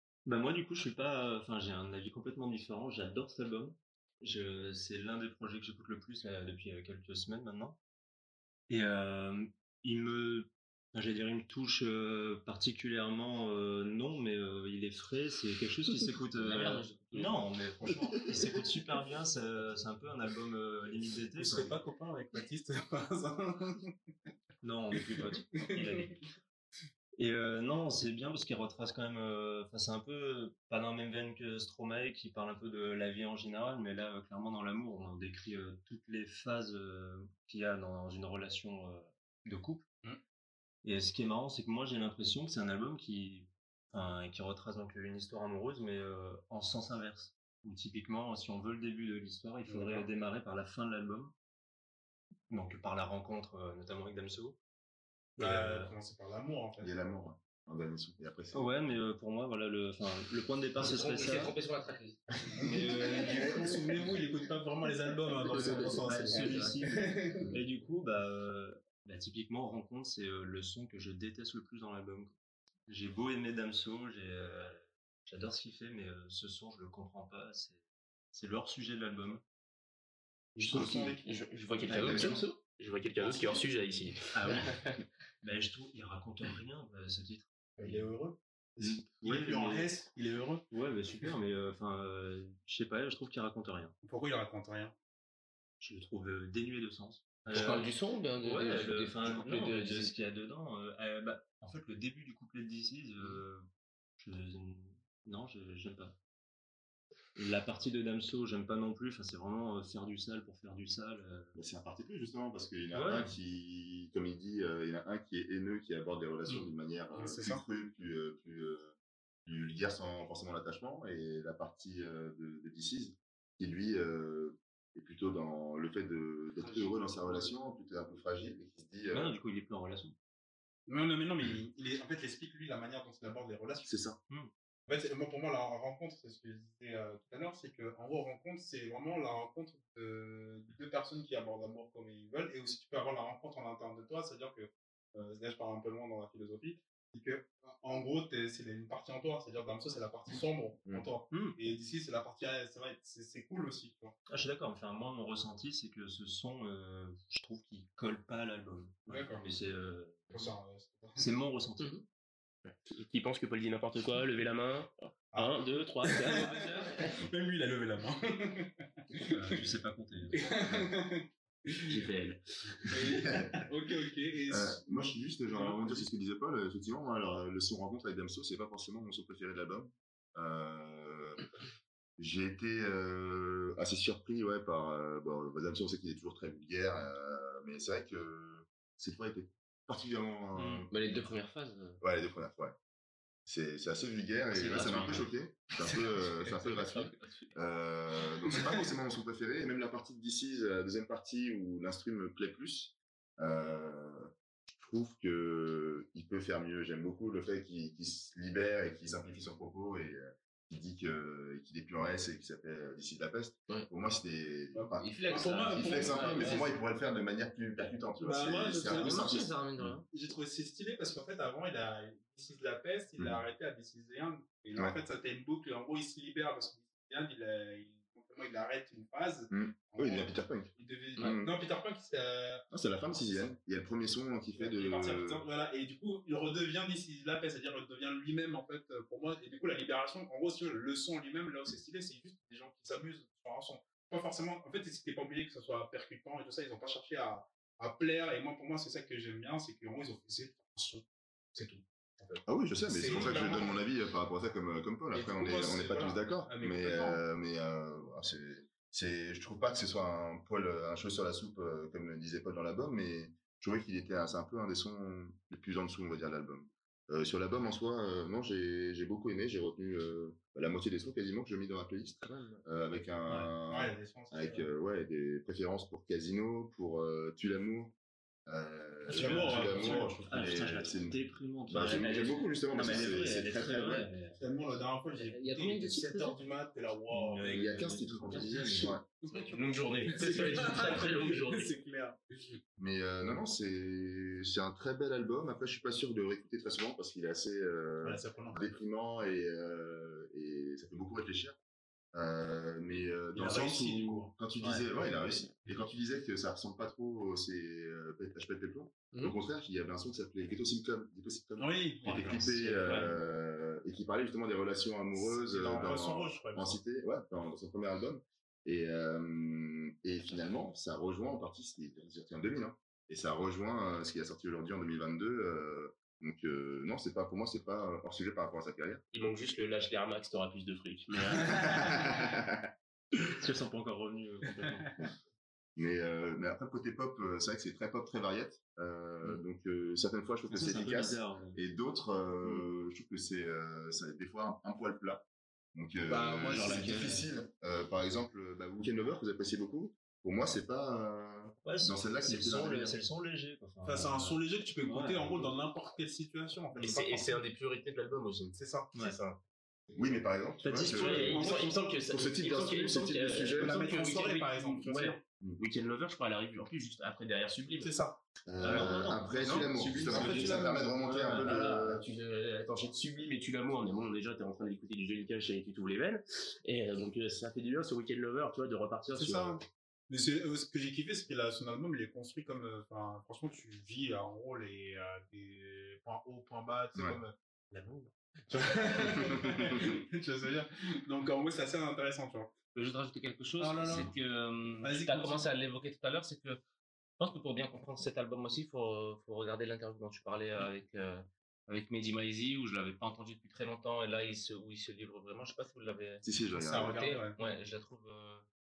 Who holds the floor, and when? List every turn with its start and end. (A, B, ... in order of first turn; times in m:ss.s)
0:00.2-0:07.8 A
0:08.7-0:21.8 A
0:16.4-0:17.5 B
0:21.4-0:24.0 C
0:24.6-0:26.2 A
0:24.9-0:26.2 C
0:27.2-0:39.9 A
0:40.8-0:51.3 A
0:49.7-0:50.1 C
0:52.5-0:54.6 A
0:55.4-0:55.9 A
0:55.4-0:56.9 C
0:56.8-0:58.7 D
0:58.5-1:01.6 A
1:00.8-1:02.3 B
1:02.6-1:07.5 C
1:02.6-1:03.4 A
1:05.5-1:06.8 B
1:05.5-1:12.3 A
1:12.9-1:19.4 A
1:20.6-1:21.2 C
1:20.6-1:24.6 E
1:21.9-1:22.4 A
1:22.0-1:22.4 D
1:23.2-1:23.6 C
1:24.3-1:28.1 A
1:27.8-1:30.7 C
1:28.8-1:29.9 A
1:30.7-1:34.0 A
1:34.0-1:35.0 C
1:35.8-1:43.7 A
1:37.5-1:40.2 B
1:44.2-1:46.2 A
1:47.4-1:51.6 A
1:51.6-1:58.9 D
1:52.9-1:53.4 A
1:57.1-1:57.6 C
1:59.4-2:09.4 D
2:06.6-2:06.9 C
2:09.1-2:10.2 A
2:10.9-2:14.0 C
2:13.9-2:14.2 D
2:14.9-2:34.2 C
2:31.3-2:31.6 B
2:34.3-2:40.5 A
2:39.1-2:39.5 C
2:40.3-2:41.3 C
2:41.2-2:42.0 A
2:42.6-2:47.2 E
2:45.3-2:49.7 C
2:49.3-2:51.0 A
2:50.4-2:52.0 C
2:51.9-2:52.9 E
2:52.9-2:56.1 C
2:53.2-2:53.6 D
2:54.5-3:01.5 D
3:02.2-3:10.9 D
3:10.9-3:12.0 B
3:12.0-3:12.8 D
3:13.5-3:35.2 D
3:14.5-3:15.3 B
3:16.5-3:17.6 B
3:34.7-3:36.8 C
3:35.0-3:36.7 B
3:35.7-3:40.0 D
3:38.2-3:39.4 C
3:38.9-3:40.1 B
3:40.1-3:52.7 C
3:43.2-3:43.4 D
3:49.5-3:51.5 D
3:52.7-3:55.4 D
3:54.5-4:13.8 C
4:12.5-4:44.1 D
4:15.1-4:17.2 C
4:32.2-4:32.6 B
4:33.3-4:34.7 C
4:39.1-4:44.4 A
4:39.1-4:40.2 C
4:44.4-4:47.8 C
4:45.2-4:46.4 B
4:47.1-4:49.0 A
4:47.5-4:49.0 D
4:48.5-4:51.7 E
4:49.2-4:52.6 C
4:52.8-5:01.6 D
4:58.0-4:58.6 C
5:02.1-5:29.0 D
5:03.4-5:04.4 C
5:04.6-5:04.8 A
5:11.6-5:12.5 C
5:12.0-5:13.2 A
5:15.1-5:16.8 C
5:29.1-5:32.0 E
5:31.8-5:32.7 D
5:33.4-5:34.9 A
5:35.8-5:53.0 D
5:40.5-5:41.6 A
5:46.1-5:47.3 A
5:51.6-5:55.6 A
5:53.8-5:57.4 C
5:56.8-5:59.4 E
5:58.6-5:58.9 C
5:58.9-5:59.2 A
5:59.9-6:03.9 D
6:00.6-6:01.5 A
6:00.8-6:07.9 E
6:01.1-6:01.8 C
6:03.6-6:05.2 C
6:07.8-6:08.2 C
6:08.5-6:12.1 D
6:08.6-6:11.5 A
6:08.7-6:19.6 E
6:10.1-6:10.9 C
6:19.2-6:32.5 C
6:29.2-6:29.9 D
6:32.8-6:36.6 B
6:33.6-6:34.1 C
6:34.8-6:35.5 C
6:37.2-6:48.5 B
6:46.2-6:47.0 D
6:46.6-6:47.4 C